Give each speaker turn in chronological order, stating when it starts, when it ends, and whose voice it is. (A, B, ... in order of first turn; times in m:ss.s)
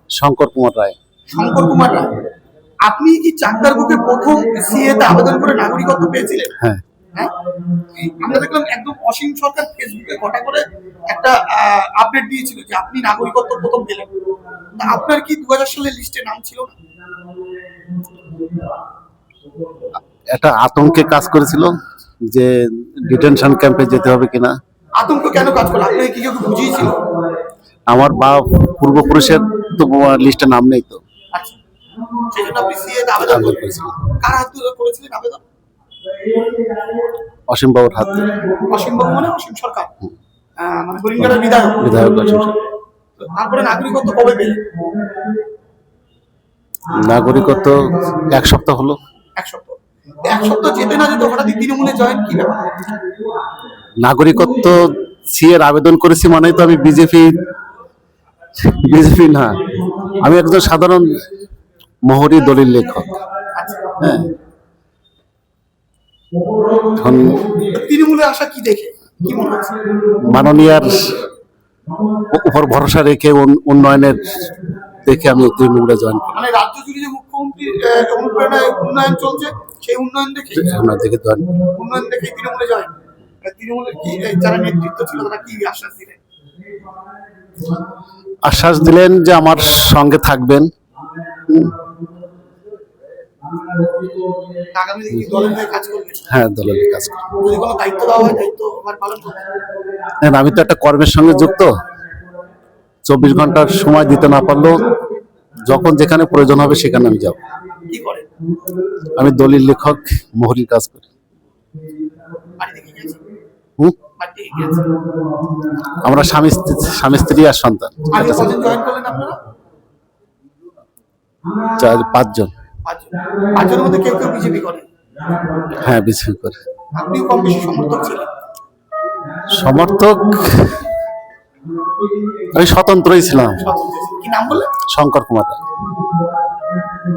0:00.2-0:01.0 A
0:01.3-0:02.1 B
0:02.8-0:06.5 B
0:08.0-0:14.1 B
0:14.8-0:16.7 B
0:20.3-0:21.7 A
0:22.3-0:24.6 A
0:25.0-0:27.0 B
0:27.9-0:31.0 A
0:32.3-0:35.4 B
0:33.2-0:34.1 A
0:37.5-0:38.4 A
0:38.6-0:39.9 B
0:40.6-0:41.8 B
0:41.2-0:42.6 A
0:43.2-0:44.6 B
0:46.9-0:49.0 A
0:49.4-0:52.6 B
0:54.0-0:54.8 A
0:55.3-0:57.4 A
0:58.6-0:59.6 A
1:00.2-1:01.1 A
1:02.1-1:03.2 A
1:03.4-1:04.0 B
1:04.0-1:04.3 A
1:07.0-1:07.4 A
1:07.7-1:09.8 B
1:10.2-1:11.0 A
1:12.3-1:16.4 A
1:16.3-1:20.8 B
1:20.6-1:21.5 A
1:21.7-1:22.9 B
1:23.4-1:26.2 B
1:28.4-1:30.7 A
1:31.5-1:31.8 A
1:34.8-1:36.2 B
1:36.3-1:37.4 A
1:37.4-1:39.4 B
1:40.2-1:41.7 A
1:43.1-1:44.9 A
1:45.7-1:47.4 A
1:47.9-1:48.3 B
1:49.2-1:51.1 A
1:52.6-1:53.2 B
1:54.2-1:54.8 B
1:56.0-1:58.6 A
1:58.1-1:59.4 B
2:01.8-2:02.5 A
2:02.9-2:04.9 B
2:05.8-2:06.6 A
2:06.9-2:08.3 B
2:09.5-2:10.8 A
2:12.5-2:13.6 A
2:13.6-2:14.7 B
2:14.9-2:15.6 A